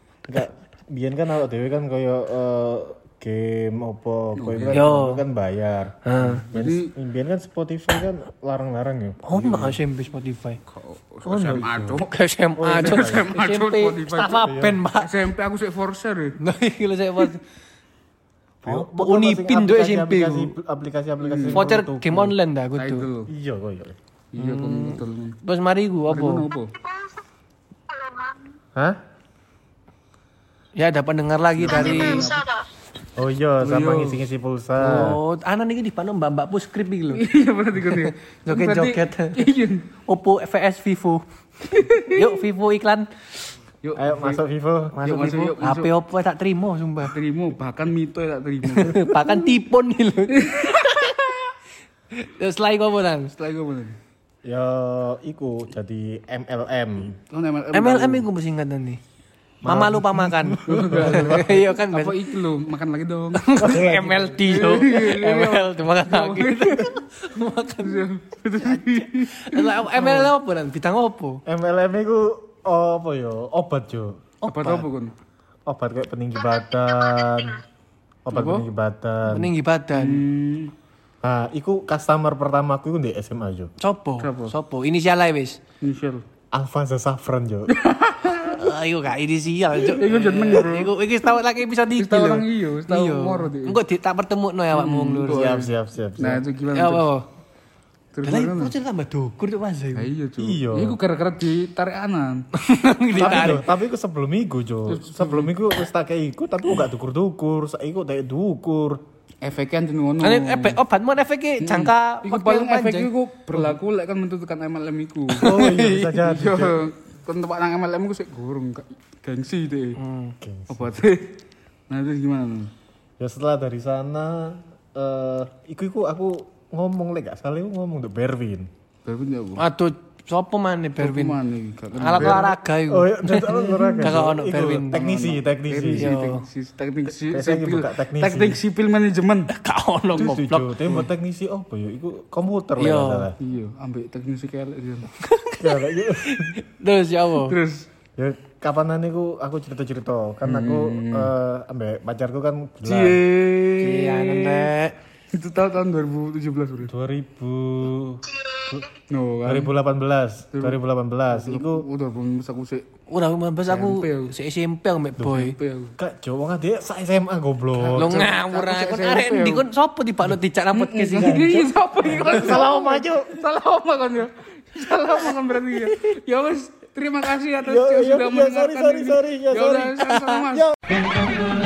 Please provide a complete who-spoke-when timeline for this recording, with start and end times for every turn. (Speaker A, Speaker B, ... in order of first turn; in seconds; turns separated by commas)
Speaker A: 0.3-9.8, Speaker B: 4.4-4.8, Speaker C: 4.7-5.2, Speaker C: 6.0-6.4, Speaker B: 6.2-6.9, Speaker C: 9.2-10.6, Speaker B: 10.7-12.1, Speaker A: 11.2-12.0, Speaker C: 11.9-15.1, Speaker A: 12.6-13.3, Speaker B: 12.7-16.4, Speaker A: 14.4-14.8, Speaker C: 16.4-17.4, Speaker A: 18.6-22.4, Speaker C: 18.6-20.6, Speaker B: 21.2-21.7, Speaker C: 21.5-23.1, Speaker B: 22.8-23.3, Speaker A: 23.3-23.9, Speaker B: 24.3-25.4, Speaker C: 24.4-26.5, Speaker B: 26.1-26.7, Speaker D: 26.9-27.2, Speaker D: 27.9-28.5, Speaker C: 30.8-32.4, Speaker B: 31.6-32.4, Speaker D: 31.7-32.6, Speaker A: 33.1-35.2, Speaker B: 33.6-34.2, Speaker C: 34.8-37.2, Speaker B: 37.1-39.9, Speaker C: 37.9-39.4, Speaker C: 40.0-43.1, Speaker B: 41.7-42.3, Speaker B: 43.8-44.4, Speaker A: 44.0-45.0, Speaker C: 44.9-47.1, Speaker B: 45.0-45.9, Speaker B: 47.0-49.1, Speaker C: 48.7-51.4, Speaker B: 50.3-51.2, Speaker C: 52.1-53.3, Speaker B: 53.4-54.0, Speaker A: 54.4-57.2, Speaker B: 57.3-58.3, Speaker C: 57.7-59.0, Speaker A: 59.6-61.6, Speaker C: 59.6-62.2, Speaker B: 60.7-67.0, Speaker C: 63.4-71.4, Speaker A: 63.6-64.4, Speaker B: 67.8-70.3, Speaker A: 71.5-74.3, Speaker C: 74.4-74.9, Speaker B: 74.5-75.1, Speaker A: 75.7-77.6, Speaker D: 76.5-77.4, Speaker A: 78.3-79.5, Speaker B: 78.3-78.6, Speaker C: 79.3-80.2, Speaker B: 79.9-80.7, Speaker A: 81.2-83.7, Speaker C: 83.8-85.6, Speaker B: 84.2-84.5, Speaker B: 85.8-86.2, Speaker A: 86.5-87.7, Speaker B: 87.7-88.7, Speaker C: 88.4-95.5, Speaker B: 89.9-90.9, Speaker B: 92.0-93.8, Speaker B: 94.7-97.1, Speaker A: 95.3-96.4, Speaker C: 96.7-97.3, Speaker B: 98.1-98.7, Speaker C: 98.2-100.1, Speaker B: 99.9-102.5, Speaker A: 100.4-101.0, Speaker C: 102.5-103.6, Speaker B: 103.1-103.6, Speaker A: 103.2-109.0, Speaker B: 104.9-105.5, Speaker B: 109.4-110.8, Speaker C: 110.2-113.1, Speaker B: 111.6-115.6, Speaker C: 115.4-116.2, Speaker A: 115.4-116.9, Speaker B: 116.2-120.0, Speaker C: 120.0-120.3, Speaker A: 120.4-121.0, Speaker B: 120.7-121.4, Speaker B: 121.9-122.7, Speaker A: 123.2-128.7, Speaker B: 129.1-129.6, Speaker C: 129.6-131.4, Speaker B: 131.0-132.6, Speaker C: 131.9-135.0, Speaker A: 132.2-136.1, Speaker B: 133.9-139.5, Speaker C: 135.9-136.4, Speaker A: 137.3-138.6, Speaker C: 139.5-140.7, Speaker A: 140.2-143.4, Speaker C: 142.8-143.3, Speaker B: 143.4-145.1, Speaker C: 145.2-147.6, Speaker A: 145.6-146.6, Speaker B: 147.4-147.9, Speaker A: 148.2-153.2, Speaker B: 150.4-151.3, Speaker B: 152.8-154.7, Speaker C: 153.7-154.9, Speaker B: 155.3-156.9, Speaker A: 156.9-158.9, Speaker B: 159.1-159.7, Speaker A: 159.4-161.9, Speaker B: 161.3-162.9, Speaker C: 163.1-165.6, Speaker B: 163.7-164.3, Speaker B: 165.2-165.9, Speaker A: 166.0-168.3, Speaker B: 167.8-169.7, Speaker C: 167.9-171.4, Speaker B: 170.7-180.7, Speaker A: 171.2-173.4, Speaker A: 177.6-180.7